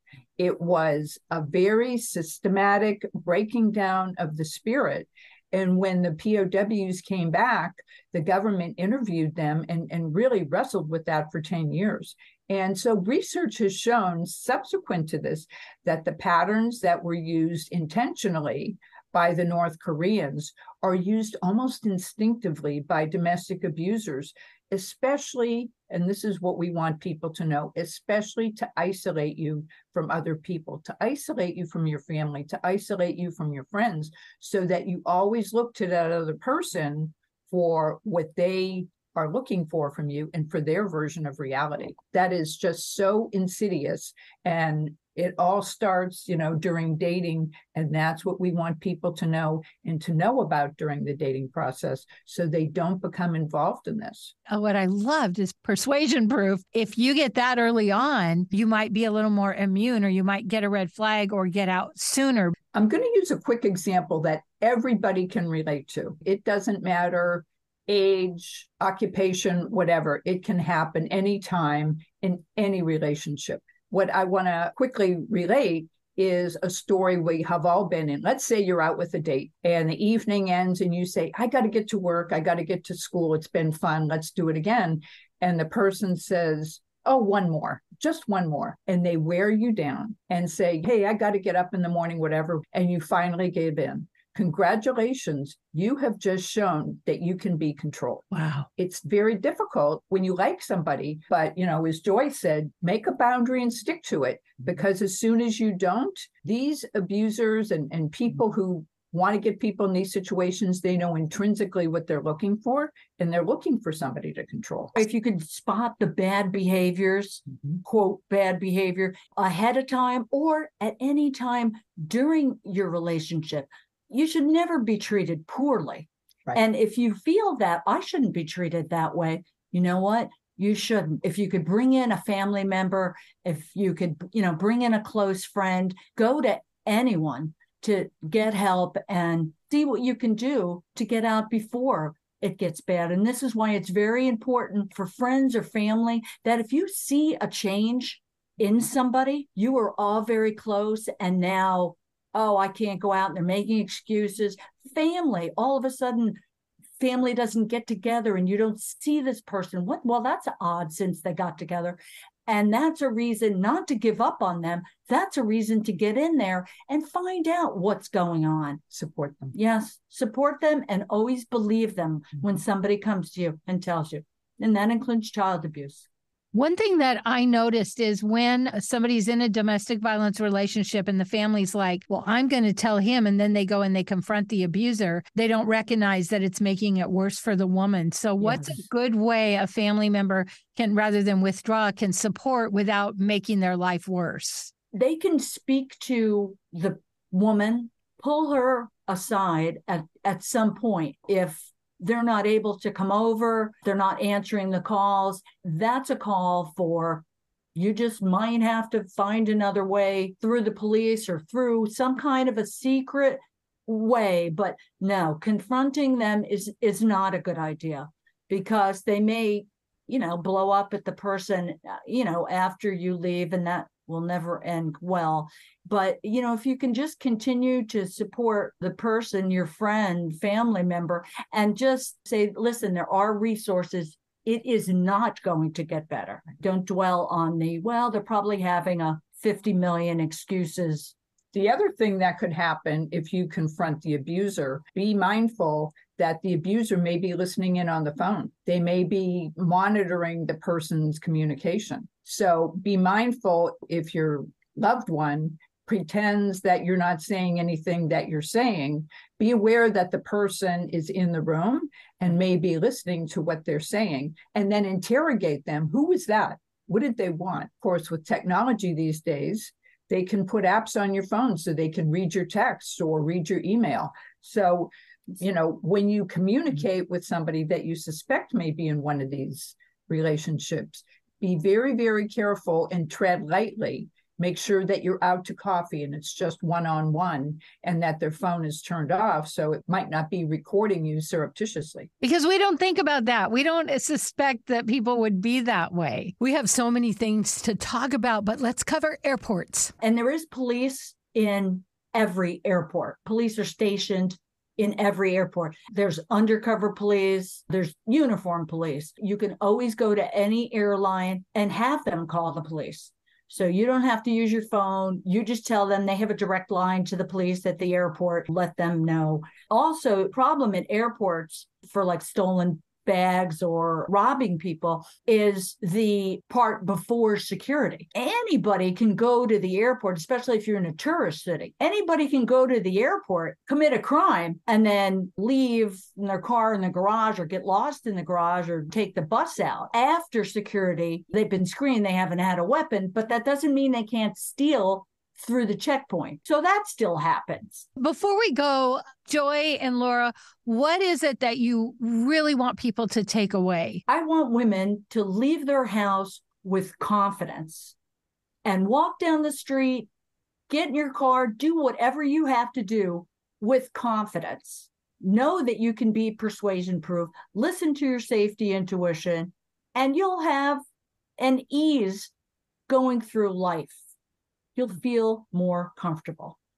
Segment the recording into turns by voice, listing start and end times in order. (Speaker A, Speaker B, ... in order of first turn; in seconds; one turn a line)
Speaker A: 0.4-54.3
Speaker B: 54.5-62.5
Speaker A: 62.7-114.9
Speaker B: 98.3-98.7
Speaker C: 115.0-156.4
Speaker C: 157.0-168.8
Speaker A: 168.9-169.5
Speaker C: 169.5-176.1
Speaker B: 176.5-194.7
Speaker C: 194.9-207.2
Speaker C: 207.7-241.1
Speaker A: 241.5-292.1
Speaker B: 292.2-299.9
Speaker C: 300.0-347.9
Speaker B: 348.0-354.0
Speaker C: 354.1-357.9
Speaker C: 358.6-360.1
Speaker C: 360.7-370.8
Speaker C: 371.4-372.3
Speaker C: 372.9-374.0
Speaker C: 374.8-376.6